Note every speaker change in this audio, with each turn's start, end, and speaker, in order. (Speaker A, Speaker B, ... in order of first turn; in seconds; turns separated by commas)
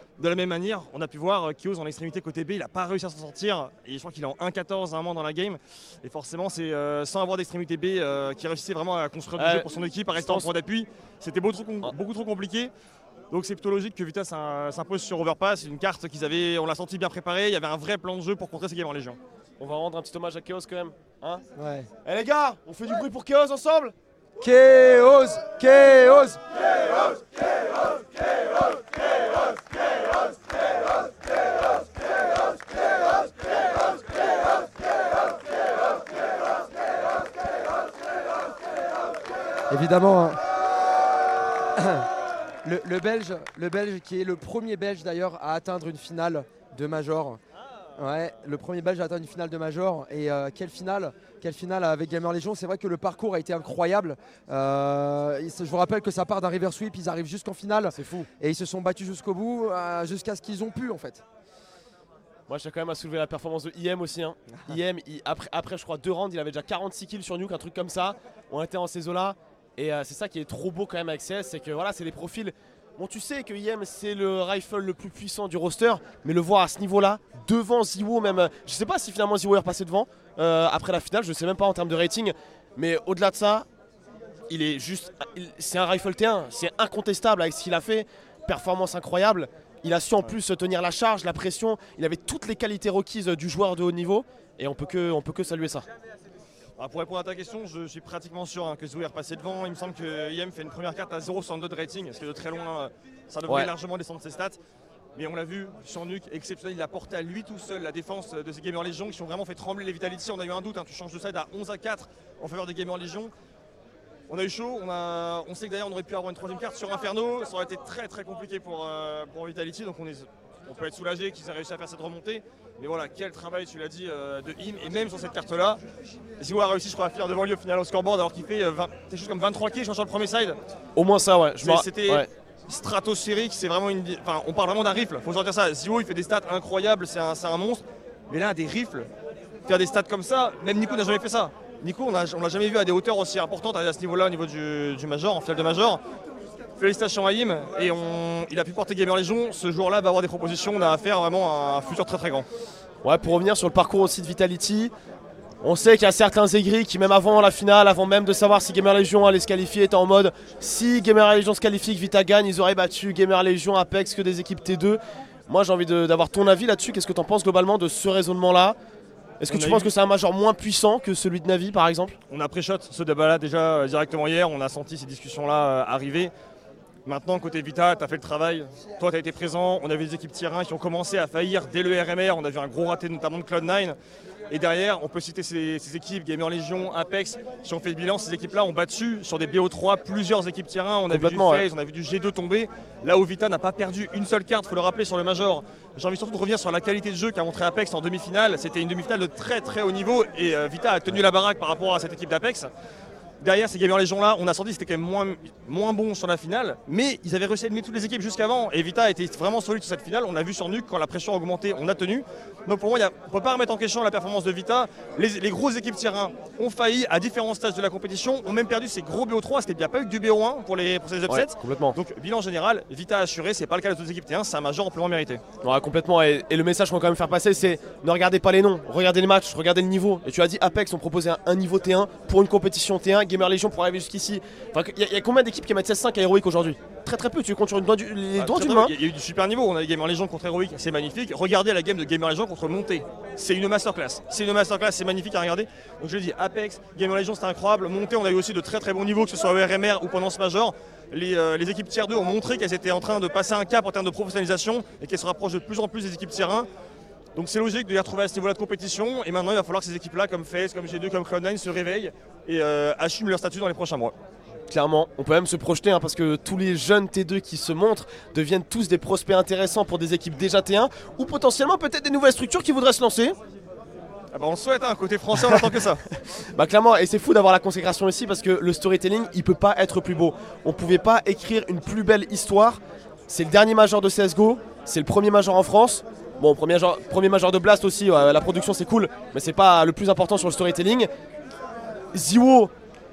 Speaker A: 0.2-12.7, Speaker B: 9.4-10.5, Speaker A: 13.3-19.2, Speaker B: 19.6-21.4, Speaker C: 21.6-21.9, Speaker B: 22.0-23.9, Speaker C: 24.4-26.4, Speaker C: 39.7-40.4, Speaker C: 41.8-42.1, Speaker C: 42.6-47.4, Speaker C: 48.0-61.2, Speaker B: 57.9-58.3, Speaker B: 62.5-83.7, Speaker B: 84.5-95.8, Speaker A: 96.8-104.6, Speaker A: 105.2-113.3, Speaker A: 114.3-125.8, Speaker A: 126.4-130.6, Speaker B: 130.9-132.3, Speaker A: 131.6-139.1, Speaker A: 139.7-146.0, Speaker A: 146.8-152.4, Speaker B: 153.0-154.9, Speaker B: 155.6-168.8, Speaker B: 169.4-172.2, Speaker A: 169.5-169.9, Speaker A: 172.3-176.3, Speaker A: 177.1-183.9, Speaker A: 184.5-202.7, Speaker B: 191.1-191.7, Speaker A: 203.4-225.4, Speaker B: 221.3-222.0, Speaker B: 225.6-238.9, Speaker A: 238.3-256.7, Speaker A: 257.4-264.1, Speaker B: 264.7-273.4, Speaker A: 274.3-276.0, Speaker B: 276.5-291.1, Speaker B: 292.1-292.7